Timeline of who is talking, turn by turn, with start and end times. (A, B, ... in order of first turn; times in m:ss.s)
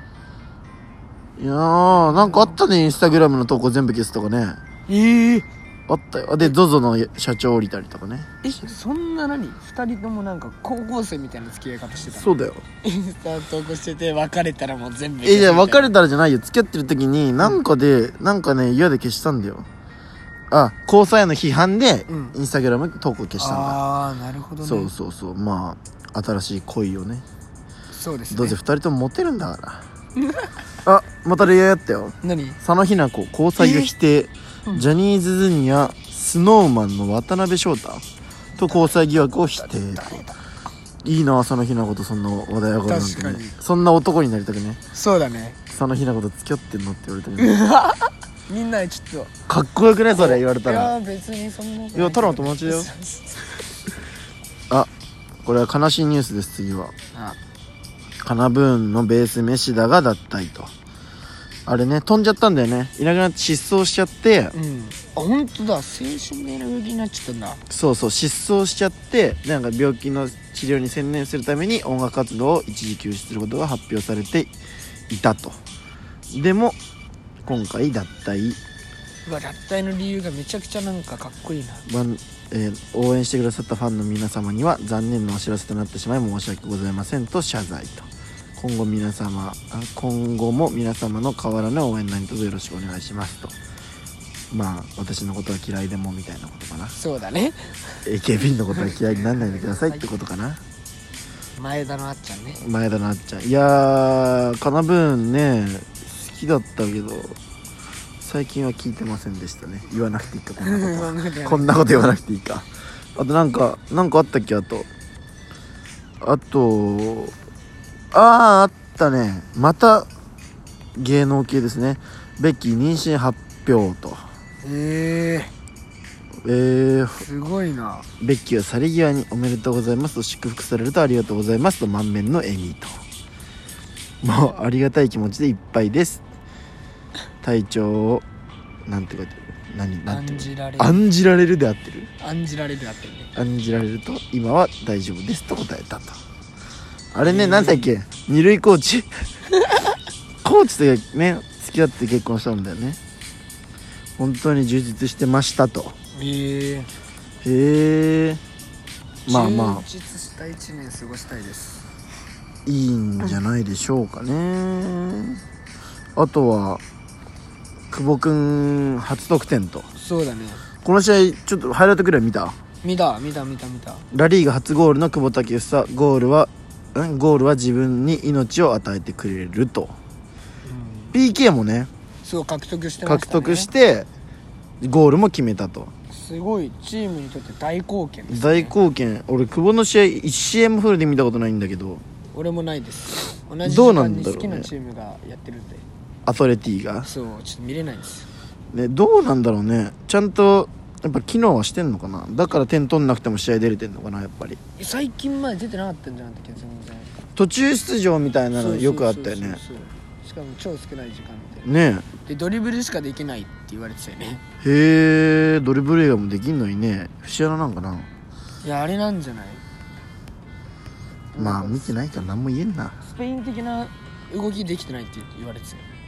0:01.4-0:04.6 A
0:01.9-0:02.6 B
0:04.9-0:05.5 B
0:05.9-0:08.5 A
0:08.4-0:15.9 B
0:12.1-0:12.6 A
0:15.2-0:19.7 A
0:20.5-0:23.8 A
0:22.1-0:22.4 B
0:23.4-0:24.9 B
0:24.6-0:27.2 A
0:27.9-0:28.6 B
0:28.3-0:29.9 A
0:30.2-0:30.5 B
0:30.8-0:38.0 A
0:32.2-0:32.6 B
0:33.6-0:33.9 B
0:38.6-0:40.2 A
0:38.6-0:40.4 B
0:41.0-0:44.8 A
0:42.9-0:43.5 B
0:44.9-0:45.6 B
0:45.7-0:47.6 A
0:47.4-0:49.3 B
0:49.5-0:51.0 A
0:50.2-0:53.6 B
0:52.0-0:52.9 A
0:55.4-0:56.9 A
0:57.1-0:57.4 B
0:58.2-1:00.7 A
1:01.7-1:04.6 A
1:04.5-1:07.6 B
1:07.7-1:14.6 A
1:15.1-1:15.6 A
1:16.3-1:16.8 A
1:17.4-1:18.6 A
1:19.3-1:21.8 B
1:21.9-1:33.6 A
1:34.5-1:37.0 A
1:36.9-1:38.0 B
1:38.1-1:40.6 A
1:38.7-1:40.1 B
1:41.6-1:42.6 B
1:42.6-1:47.4 A
1:48.2-1:54.9 A
1:50.6-1:52.1 B
1:56.2-1:57.4 A
1:58.1-2:00.1 A
2:01.0-2:04.3 A
2:04.6-2:05.5 B
2:06.4-2:07.3 A
2:07.2-2:08.1 B
2:08.2-2:13.0 A
2:14.2-2:16.2 A
2:17.4-2:18.2 A
2:18.9-2:22.1 A
2:20.1-2:21.0 B
2:22.2-2:23.3 B
2:23.4-2:26.2 A
2:27.1-2:29.2 A
2:27.2-2:27.9 B
2:30.4-2:33.0 A
2:34.2-2:36.0 A
2:36.1-2:36.9 B
2:37.4-2:38.4 A
2:39.3-2:39.8 A
2:39.3-2:41.9 B
2:42.6-2:45.4 A
2:46.2-2:46.8 A
2:47.9-2:49.9 A
2:50.0-2:50.6 B
2:50.8-2:52.6 A
2:52.8-2:54.1 B
2:54.1-3:00.0 A
3:00.6-3:01.2 B
3:01.1-3:01.9 A
3:02.2-3:03.7 B
3:03.0-3:04.1 A
3:04.8-3:05.9 A
3:06.1-3:08.8 B
3:08.3-3:12.0 A
3:12.3-3:15.8 B
3:13.6-3:14.7 A
3:16.2-3:17.1 A
3:17.0-3:18.3 B
3:18.7-3:24.6 A
3:24.8-3:27.1 B
3:27.4-3:29.6 A
3:28.5-3:31.7 B
3:31.6-3:32.1 A
3:32.2-3:34.4 B
3:34.6-3:38.1 A
3:38.6-3:39.6 B
3:41.3-3:41.9 B
3:41.4-3:43.0 A
3:43.0-3:45.9 B